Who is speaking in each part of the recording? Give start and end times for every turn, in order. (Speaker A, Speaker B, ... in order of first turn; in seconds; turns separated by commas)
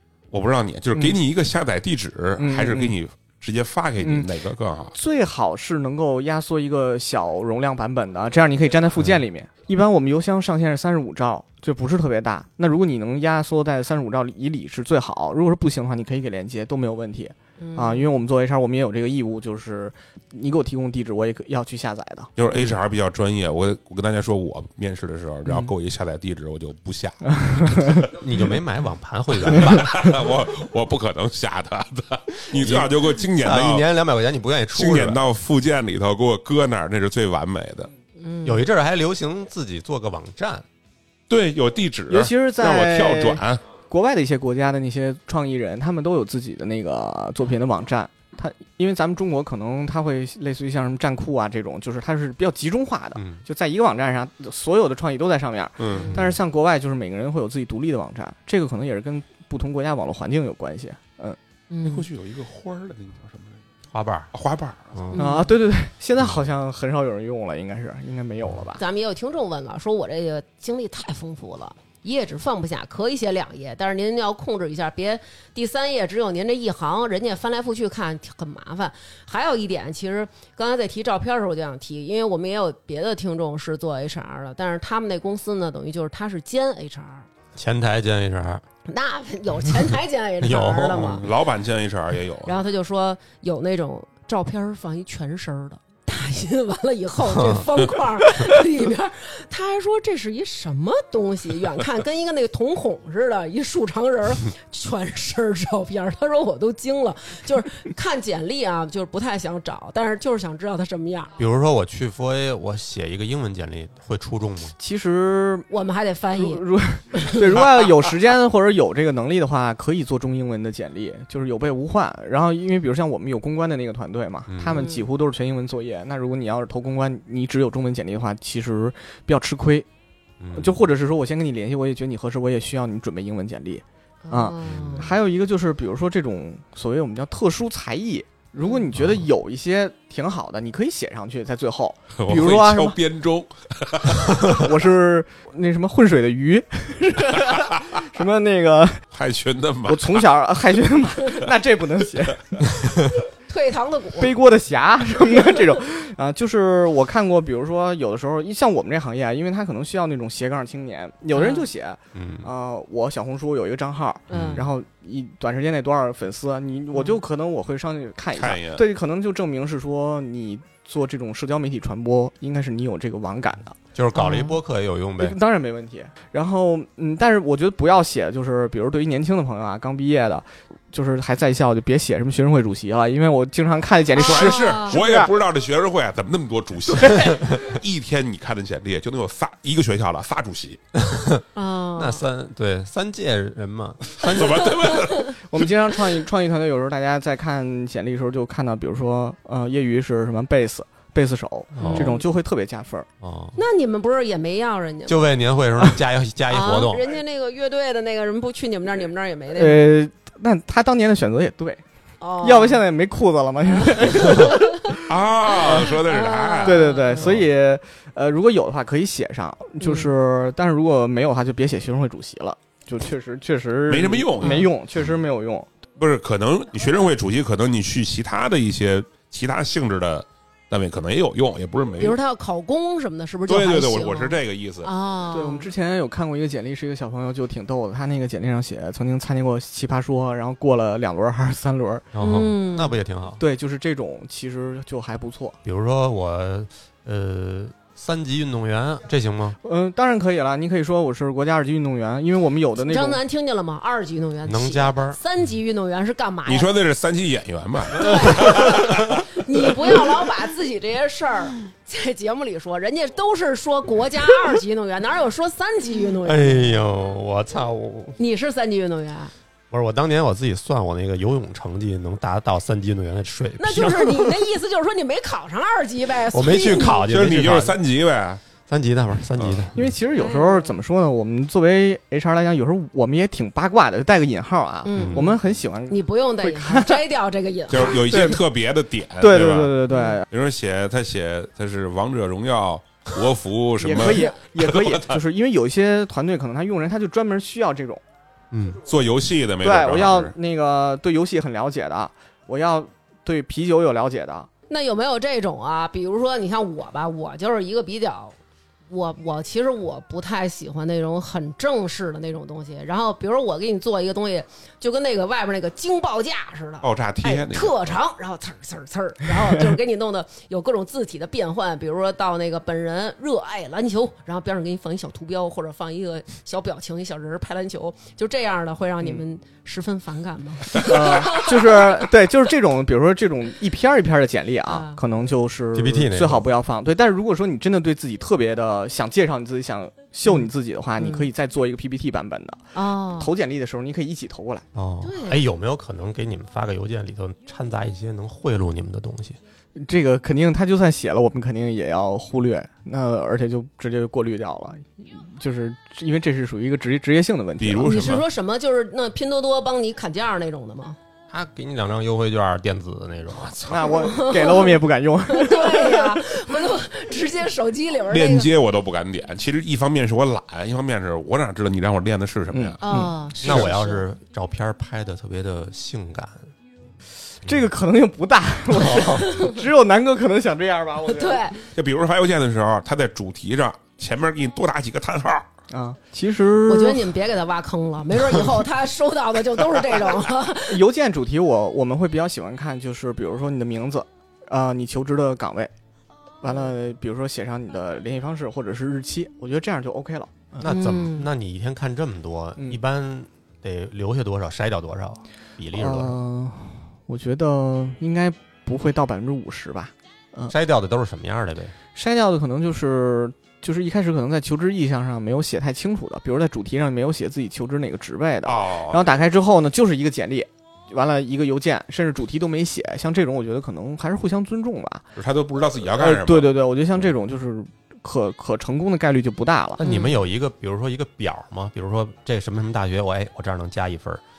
Speaker A: 0.3-5.0, Speaker B: 2.4-2.9, Speaker B: 4.0-4.3, Speaker B: 5.0-22.7, Speaker C: 17.6-18.1, Speaker A: 22.4-28.1, Speaker B: 25.5-25.7, Speaker B: 27.3-28.1, Speaker D: 28.1-30.1, Speaker A: 29.5-33.9, Speaker D: 32.5-35.2, Speaker A: 34.7-37.9, Speaker C: 38.2-38.6, Speaker D: 38.4-40.6, Speaker A: 41.3-43.6, Speaker B: 42.1-61.4, Speaker D: 53.1-53.4, Speaker A: 55.8-56.1, Speaker C: 56.0-56.2, Speaker D: 56.1-56.4, Speaker C: 61.7-62.1, Speaker A: 61.8-63.6, Speaker D: 63.9-64.3, Speaker A: 64.3-65.0, Speaker D: 65.0-65.2, Speaker C: 65.1-65.5, Speaker B: 65.2-68.8, Speaker C: 68.8-87.3, Speaker D: 87.5-88.6, Speaker C: 88.9-91.2, Speaker D: 90.4-91.3, Speaker A: 91.1-92.6, Speaker C: 92.5-111.3, Speaker D: 97.3-97.7, Speaker D: 111.4-114.8, Speaker B: 114.8-115.7, Speaker C: 115.7-117.4, Speaker B: 116.3-129.9, Speaker D: 124.5-124.8, Speaker C: 124.8-125.1, Speaker D: 130.4-130.8, Speaker B: 130.6-143.0, Speaker C: 134.2-135.1, Speaker D: 134.7-135.1, Speaker C: 138.6-138.9, Speaker D: 139.0-139.3, Speaker A: 142.2-144.6, Speaker B: 144.4-149.0, Speaker A: 149.1-150.3, Speaker B: 149.9-152.8, Speaker C: 153.5-154.3, Speaker B: 154.2-173.8, Speaker C: 161.3-161.7, Speaker D: 162.1-162.5, Speaker C: 164.3-164.6, Speaker D: 164.3-164.7, Speaker C: 166.9-167.2, Speaker A: 168.3-168.8, Speaker D: 173.9-175.4, Speaker C: 174.2-174.6, Speaker B: 175.2-185.3, Speaker C: 184.2-185.0, Speaker A: 184.2-190.8, Speaker B: 186.9-187.2, Speaker D: 191.0-191.4, Speaker C: 191.6-192.2, Speaker D: 191.9-195.0, Speaker A: 194.2-195.6, Speaker C: 194.9-195.2, Speaker B: 195.4-203.1, Speaker D: 201.8-202.2, Speaker C: 201.8-202.2, Speaker D: 203.2-203.6, Speaker C: 203.6-205.3, Speaker D: 205.1-207.1, Speaker C: 206.5-209.9, Speaker B: 209.6-211.8, Speaker C: 212.2-212.8, Speaker B: 212.4-215.1, Speaker C: 213.7-214.7, Speaker A: 215.1-216.9, Speaker B: 215.6-215.9, Speaker C: 215.7-217.3, Speaker B: 216.6-225.7, Speaker C: 219.8-220.1, Speaker A: 223.9-224.7, Speaker C: 224.4-224.7, Speaker A: 226.0-232.2, Speaker C: 232.0-235.7, Speaker A: 233.5-234.9, Speaker B: 235.3-242.1, Speaker D: 242.1-243.4, Speaker C: 242.2-242.9, Speaker B: 243.4-245.6, Speaker D: 245.7-249.6, Speaker B: 249.6-253.2, Speaker C: 252.8-256.7, Speaker D: 254.5-255.2, Speaker A: 256.5-259.3, Speaker C: 258.0-266.8, Speaker D: 266.2-268.2, Speaker C: 268.2-269.3, Speaker D: 269.7-274.5, Speaker C: 273.6-277.0, Speaker D: 276.3-277.8, Speaker A: 277.0-278.4, Speaker D: 278.7-279.9, Speaker A: 279.4-279.7, Speaker B: 279.8-287.0, Speaker C: 280.1-280.8, Speaker C: 284.9-288.0, Speaker D: 284.9-285.2, Speaker A: 287.7-289.8, Speaker B: 287.9-288.4, Speaker B: 289.2-290.3, Speaker C: 289.9-290.2, Speaker A: 290.3-295.2, Speaker B: 293.8-298.0, Speaker D: 298.5-298.8, Speaker A: 298.9-300.3, Speaker B: 299.6-304.5, Speaker C: 304.7-308.4, Speaker C: 308.9-332.1, Speaker A: 316.8-318.0, Speaker B: 330.7-344.7, Speaker C: 334.7-335.0, Speaker D: 335.7-336.5, Speaker C: 341.0-341.3, Speaker C: 342.7-343.3, Speaker D: 344.8-349.4, Speaker C: 345.0-345.4, Speaker B: 349.8-358.2, Speaker A: 357.6-358.2, Speaker C: 357.8-361.0, Speaker D: 361.3-364.0, Speaker A: 363.4-363.7, Speaker B: 363.7-366.5, Speaker C: 364.0-368.5, Speaker A: 368.1-372.8, Speaker B: 372.5-373.1, Speaker C: 372.8-374.0, Speaker D: 373.4-376.5, Speaker A: 373.4-373.7, Speaker B: 377.4-381.5, Speaker D: 378.8-379.3, Speaker C: 378.9-379.6, Speaker C: 381.1-381.6, Speaker A: 381.8-385.5, Speaker B: 385.7-387.2, Speaker C: 386.7-390.8, Speaker B: 390.7-395.7, Speaker B: 396.4-400.8, Speaker D: 400.6-406.2, Speaker C: 400.6-401.3, Speaker B: 405.7-410.5, Speaker D: 410.5-411.8, Speaker B: 411.9-425.1, Speaker A: 418.4-419.1, Speaker A: 425.2-426.6, Speaker B: 426.0-429.9, Speaker D: 429.8-434.2, Speaker C: 429.8-430.2